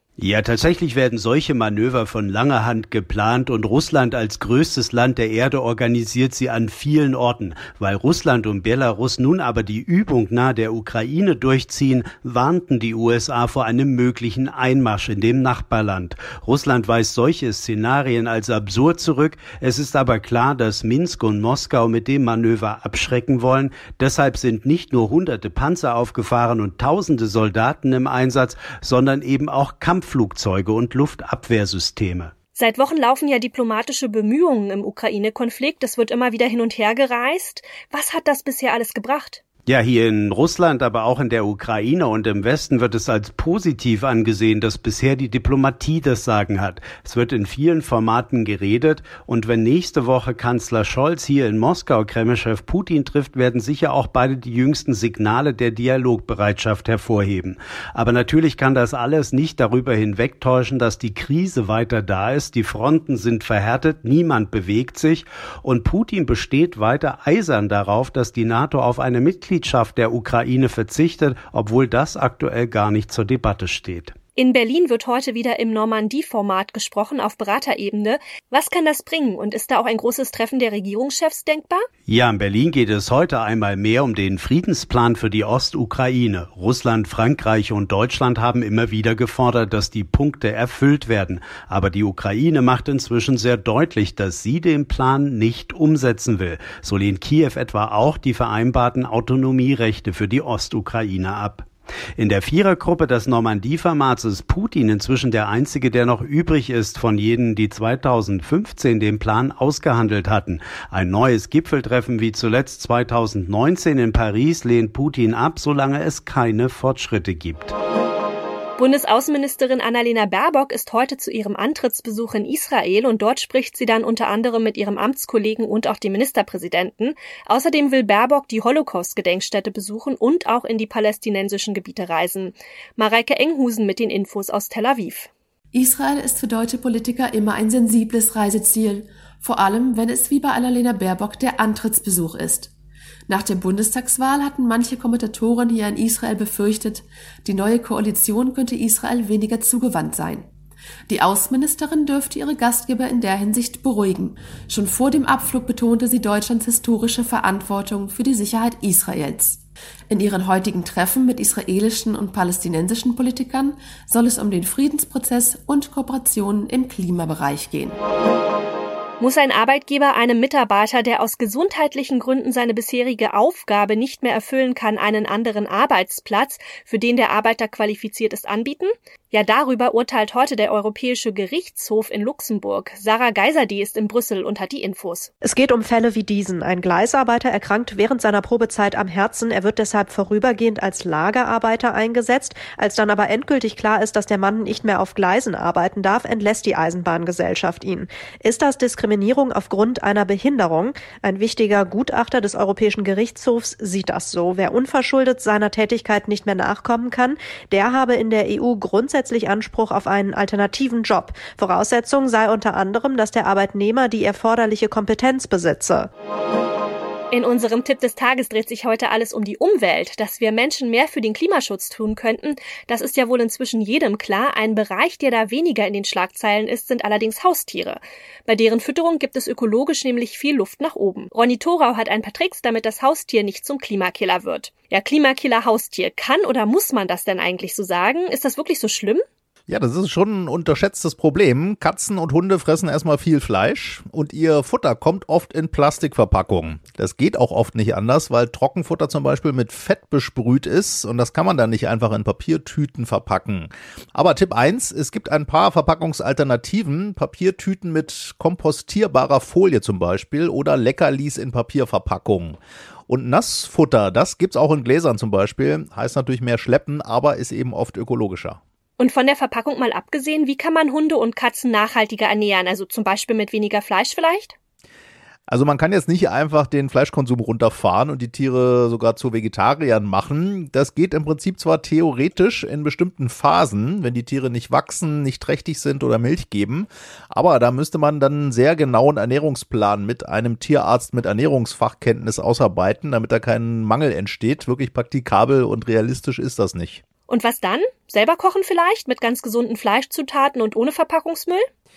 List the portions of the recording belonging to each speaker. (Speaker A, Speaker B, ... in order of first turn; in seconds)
Speaker A: 0.2-32.3, 39.6-74.1, 82.1-117.7
Speaker B: 32.5-39.4, 74.4-81.8, 118.8-135.3, 169.2-185.3, 217.3-239.2, 269.0-274.5, 297.3-301.6
Speaker C: 135.7-142.7, 143.3-150.5, 151.1-168.0
Speaker D: 185.4-216.1
Speaker E: 239.7-268.6, 275.5-297.0